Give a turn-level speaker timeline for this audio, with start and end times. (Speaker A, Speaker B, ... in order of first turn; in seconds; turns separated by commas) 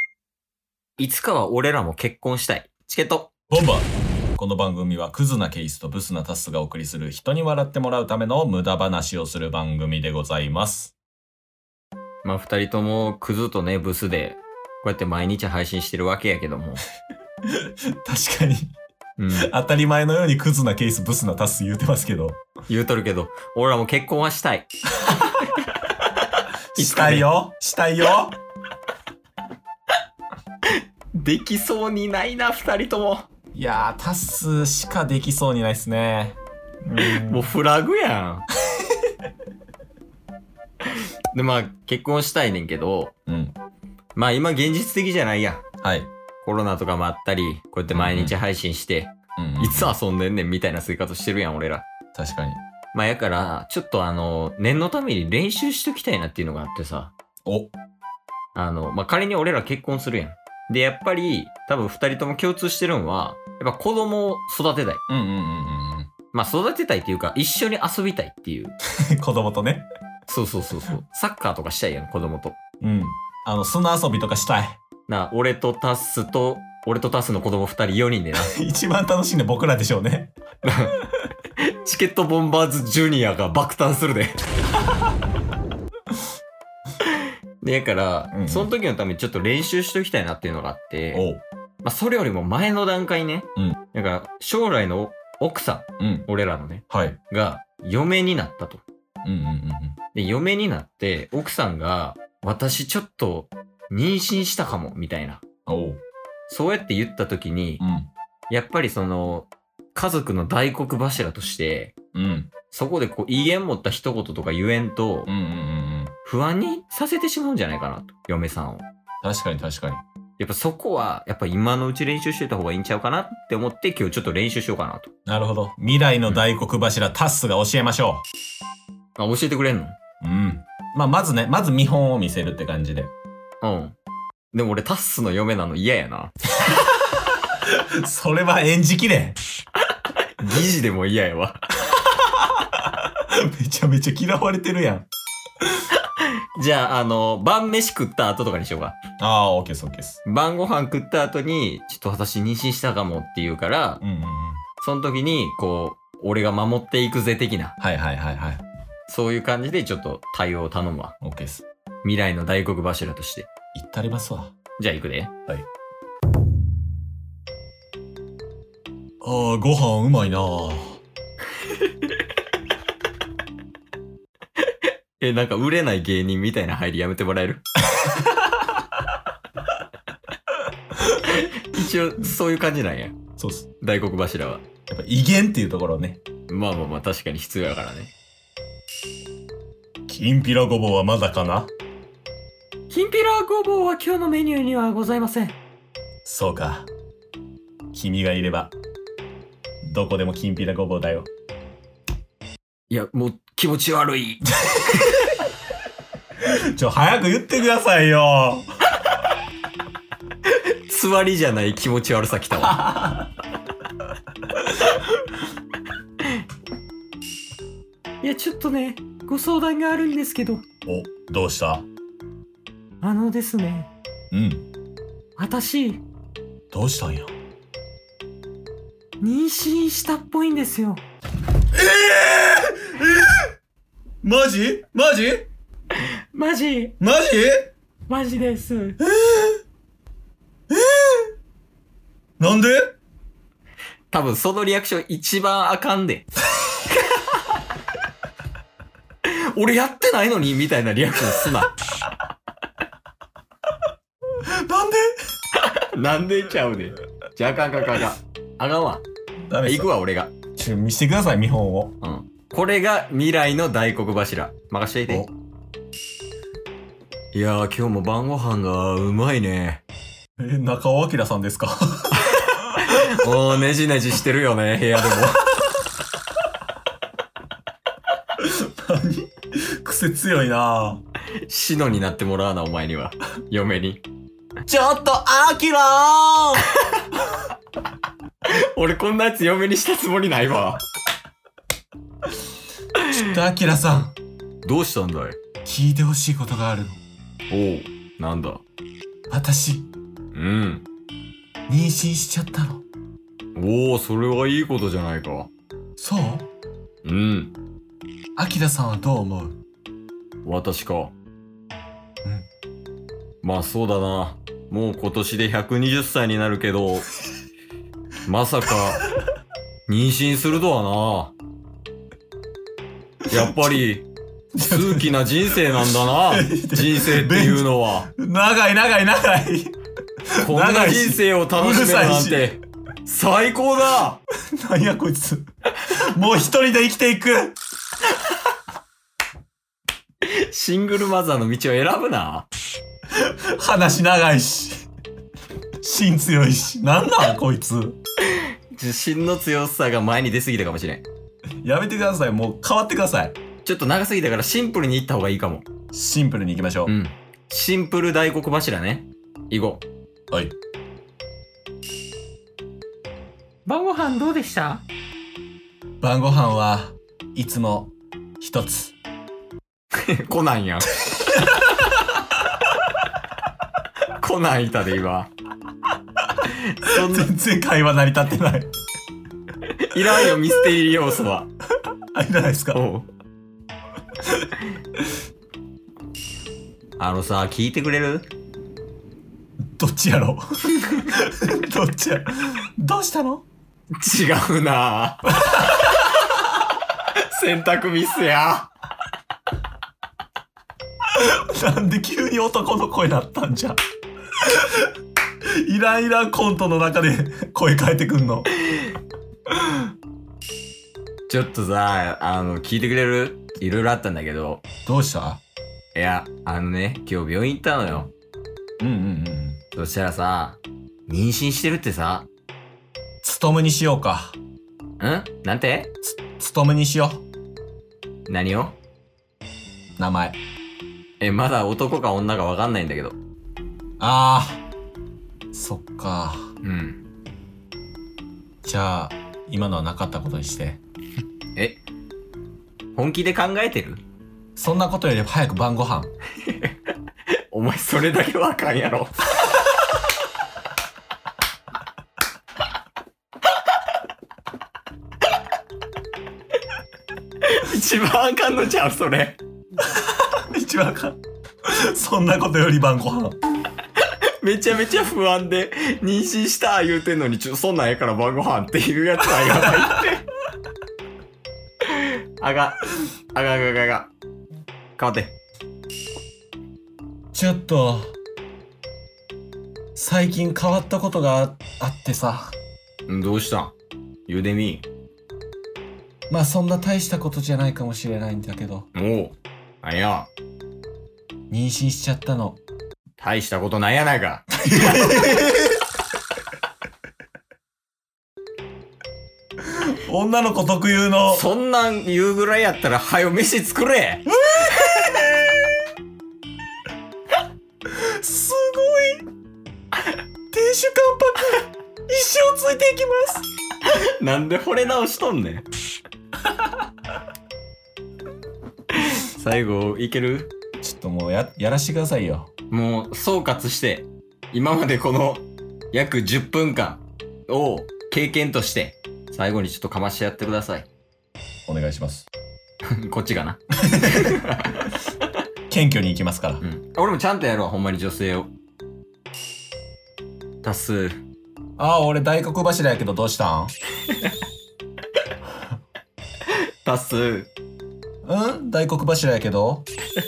Speaker A: 1.0-3.3, Speaker B: 3.5-3.8, Speaker B: 4.4-10.9, Speaker A: 12.2-16.8, Speaker B: 17.5-18.8, Speaker A: 19.2-19.5, Speaker B: 19.4-22.4, Speaker A: 22.7-24.7, Speaker B: 26.7-28.4, Speaker A: 26.8-27.3, Speaker A: 30.7-33.3, Speaker B: 33.5-37.5, Speaker A: 37.0-38.4, Speaker B: 38.7-39.1, Speaker A: 40.8-43.1, Speaker B: 43.3-43.5, Speaker A: 44.1-45.6, Speaker B: 45.8-46.1, Speaker A: 46.4-51.8, Speaker B: 47.9-48.3, Speaker B: 49.4-49.9, Speaker B: 52.1-52.6, Speaker A: 52.9-57.1, Speaker B: 57.5-57.7, Speaker A: 58.5-65.0, Speaker B: 65.1-66.1, Speaker A: 66.3-68.7, Speaker B: 69.0-69.9, Speaker A: 70.3-72.5, Speaker B: 72.8-74.8, Speaker A: 75.1-78.5, Speaker B: 78.4-80.3, Speaker A: 80.6-81.0, Speaker A: 81.6-84.4, Speaker A: 87.0-91.3, Speaker B: 88.3-88.7, Speaker B: 91.1-91.4, Speaker A: 91.8-98.8, Speaker B: 96.0-96.3, Speaker B: 96.9-97.2, Speaker B: 99.2-100.0, Speaker A: 100.1-105.4, Speaker B: 105.7-106.0, Speaker A: 106.5-107.8, Speaker B: 107.8-108.1, Speaker A: 108.5-111.9, Speaker B: 112.1-112.5, Speaker A: 112.7-115.3, Speaker B: 115.3-116.1, Speaker A: 116.2-118.8, Speaker B: 119.2-120.0, Speaker A: 120.4-125.1, Speaker B: 125.2-128.2, Speaker A: 129.2-130.0, Speaker B: 130.2-133.1, Speaker A: 133.6-133.9, Speaker A: 134.5-136.3, Speaker B: 136.7-139.4, Speaker A: 140.4-141.6, Speaker B: 141.9-145.1, Speaker A: 145.9-148.9, Speaker B: 149.2-150.2, Speaker A: 150.2-154.0, Speaker B: 154.0-154.6, Speaker A: 154.8-157.7, Speaker B: 157.8-158.6, Speaker A: 159.1-161.1, Speaker B: 161.2-161.6, Speaker A: 162.0-163.5, Speaker B: 163.7-164.5, Speaker A: 164.8-165.3, Speaker B: 169.2-171.0, Speaker A: 171.6-172.2, Speaker A: 174.6-177.6, Speaker B: 177.9-178.8, Speaker A: 181.2-183.2, Speaker B: 183.4-183.7, Speaker A: 183.8-184.6, Speaker B: 184.9-186.2, Speaker A: 186.5-188.1, Speaker B: 190.1-191.7, Speaker A: 192.9-195.6, Speaker B: 196.2-196.9, Speaker B: 197.9-198.7, Speaker B: 199.8-201.3, Speaker A: 202.9-205.3, Speaker B: 206.4-208.7, Speaker A: 210.4-212.9, Speaker B: 212.6-213.3, Speaker B: 214.6-215.2, Speaker A: 216.2-216.4, Speaker A: 218.2-220.6, Speaker B: 220.8-221.9, Speaker A: 223.0-223.9, Speaker B: 224.3-224.7, Speaker A: 225.4-226.0, Speaker B: 226.7-227.3, Speaker A: 229.2-231.0, Speaker B: 231.7-233.5, Speaker B: 234.2-235.5, Speaker A: 236.0-236.9, Speaker B: 237.0-237.7, Speaker A: 238.1-239.0, Speaker B: 239.0-239.6, Speaker B: 240.7-241.3, Speaker B: 242.4-242.9, Speaker A: 244.1-246.3, Speaker A: 246.9-247.6, Speaker A: 249.2-251.7, Speaker B: 254.3-255.2, Speaker A: 255.5-259.0, Speaker B: 259.5-259.9, Speaker A: 259.6-260.3, Speaker B: 260.6-261.9, Speaker A: 262.0-265.3, Speaker B: 265.1-265.3, Speaker A: 267.3-269.8, Speaker B: 270.4-273.4, Speaker A: 272.2-275.7, Speaker B: 278.4-281.0, Speaker A: 281.4-284.0, Speaker B: 284.6-286.7, Speaker A: 286.8-287.0, Speaker A: 288.4-290.8, Speaker A: 293.0-293.2, Speaker B: 293.1-294.1, Speaker A: 294.6-295.4, Speaker B: 295.6-297.0, Speaker A: 297.5-298.6, Speaker B: 299.3-299.9, Speaker A: 300.3-300.8, Speaker B: 301.7-302.8, Speaker A: 303.6-305.5, Speaker B: 306.0-306.5, Speaker A: 307.0-307.5, Speaker B: 308.4-309.6, Speaker A: 310.4-311.1, Speaker A: 313.4-317.1, Speaker A: 318.2-319.0, Speaker A: 319.9-321.3, Speaker A: 323.3-324.1, Speaker B: 324.5-325.2, Speaker A: 324.6-328.1, Speaker B: 325.8-329.8, Speaker B: 330.3-332.6, Speaker A: 330.4-334.2, Speaker B: 334.5-337.6, Speaker A: 340.2-342.5, Speaker B: 343.1-344.8, Speaker B: 345.8-348.0, Speaker A: 348.2-351.0, Speaker B: 351.6-353.4, Speaker A: 353.6-355.6, Speaker B: 355.9-356.9, Speaker A: 356.9-359.8, Speaker A: 363.6-364.8, Speaker B: 366.0-368.9, Speaker A: 369.9-370.9, Speaker B: 371.1-372.2, Speaker A: 374.1-375.3, Speaker A: 376.4-377.3, Speaker B: 376.9-378.7, Speaker A: 379.6-381.5, Speaker B: 382.1-382.8, Speaker A: 382.7-383.1, Speaker B: 384.2-384.5, Speaker A: 387.0-388.3, Speaker B: 389.8-393.4, Speaker A: 394.0-396.4, Speaker B: 395.4-395.9, Speaker A: 396.9-398.7, Speaker B: 401.1-403.8, Speaker B: 404.4-404.9, Speaker B: 405.5-408.5, Speaker B: 409.5-409.9, Speaker A: 411.3-414.6, Speaker B: 414.9-415.4, Speaker A: 415.9-418.1, Speaker B: 418.8-419.6, Speaker A: 419.7-422.3, Speaker B: 423.2-424.4, Speaker A: 425.0-425.9, Speaker B: 426.0-427.2, Speaker A: 428.3-428.8, Speaker B: 430.0-430.4, Speaker A: 431.2-433.2, Speaker B: 434.0-434.6, Speaker B: 435.5-436.5, Speaker A: 436.6-437.0, Speaker B: 438.6-440.8, Speaker A: 442.9-444.0, Speaker B: 444.6-446.1, Speaker A: 446.4-446.8, Speaker A: 447.3-449.1, Speaker A: 457.4-459.4, Speaker B: 459.9-463.4, Speaker A: 464.0-470.2, Speaker B: 469.4-469.9, Speaker A: 471.8-474.1, Speaker A: 475.0-475.3, Speaker B: 477.3-478.1, Speaker B: 479.9-482.6, Speaker A: 483.1-483.7, Speaker A: 484.3-484.8, Speaker B: 486.3-488.9, Speaker A: 488.9-490.3, Speaker B: 491.5-492.6, Speaker A: 493.2-495.3, Speaker B: 494.6-495.8, Speaker B: 499.6-501.4, Speaker A: 501.3-505.0, Speaker B: 504.3-505.9, Speaker B: 507.9-509.2, Speaker B: 510.5-513.5, Speaker A: 513.8-515.6, Speaker A: 518.9-520.5, Speaker B: 520.8-522.5, Speaker A: 522.7-530.9, Speaker B: 531.6-532.3, Speaker A: 532.9-534.9, Speaker B: 533.8-534.4, Speaker B: 535.7-536.6, Speaker A: 536.6-538.5, Speaker A: 540.6-541.2, Speaker B: 541.8-543.7, Speaker A: 546.4-547.5, Speaker B: 548.2-549.9